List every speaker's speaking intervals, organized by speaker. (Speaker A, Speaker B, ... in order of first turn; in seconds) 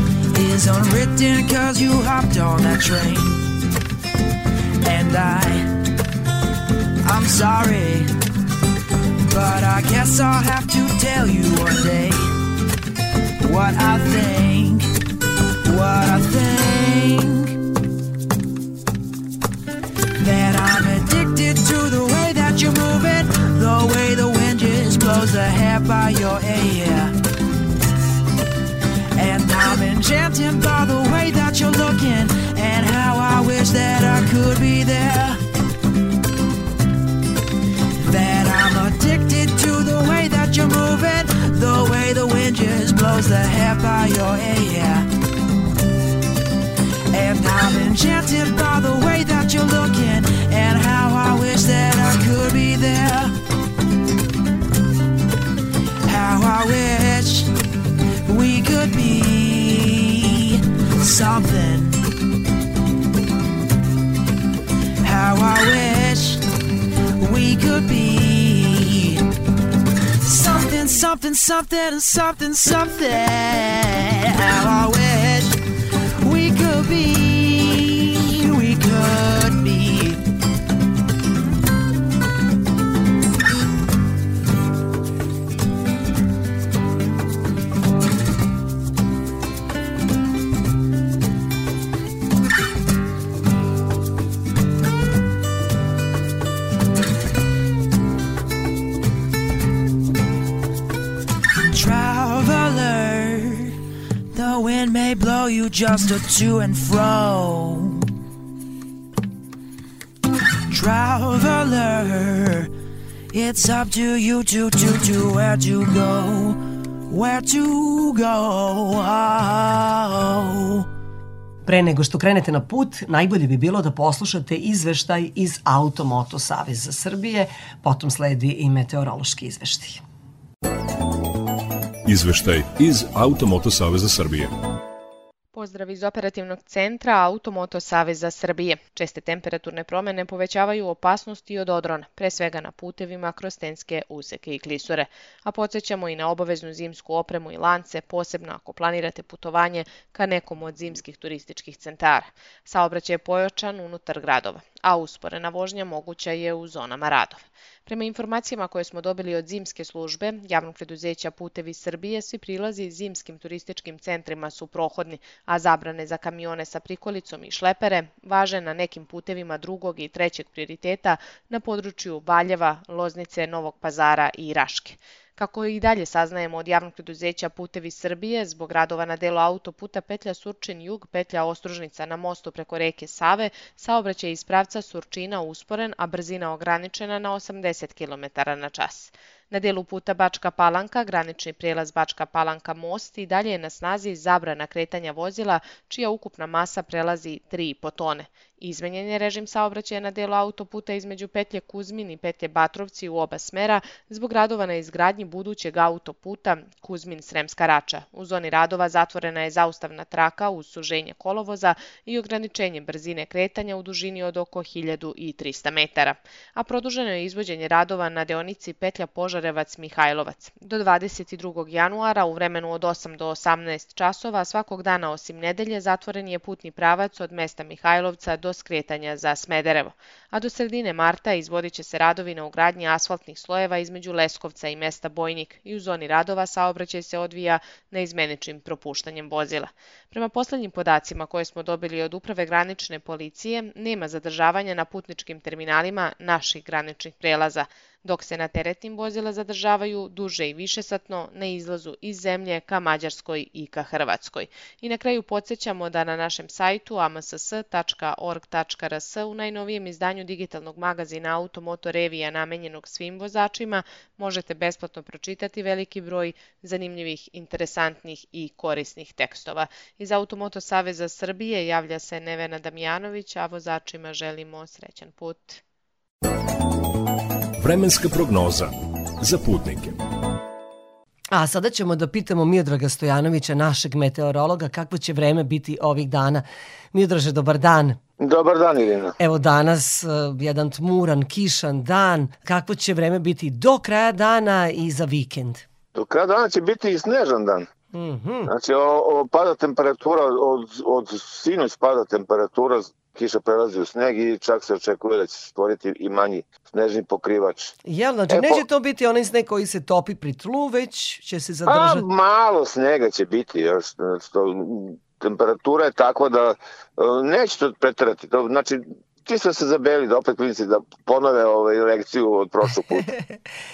Speaker A: 0.3-3.5, 4.8-5.7, 7.0-8.1, 9.3-12.3, 13.4-14.9, 15.7-17.6, 20.2-27.1, 29.2-35.4, 38.0-45.1, 47.1-53.3, 56.1-57.5, 58.3-62.0, 65.0-66.4, 67.2-69.2, 70.2-75.6, 76.2-80.2, 101.7-103.8, 104.3-108.0, 110.7-112.7, 113.3-120.9
Speaker B: 121.7-130.0, 281.3-288.0, 289.2-295.6, 297.9-298.5, 307.8-312.1, 323.0-323.4
Speaker C: 132.1-134.5, 277.6-280.0
Speaker D: 135.5-275.6
Speaker E: 288.2-289.1, 295.9-297.7, 298.5-307.8, 308.3-308.6, 311.7-323.1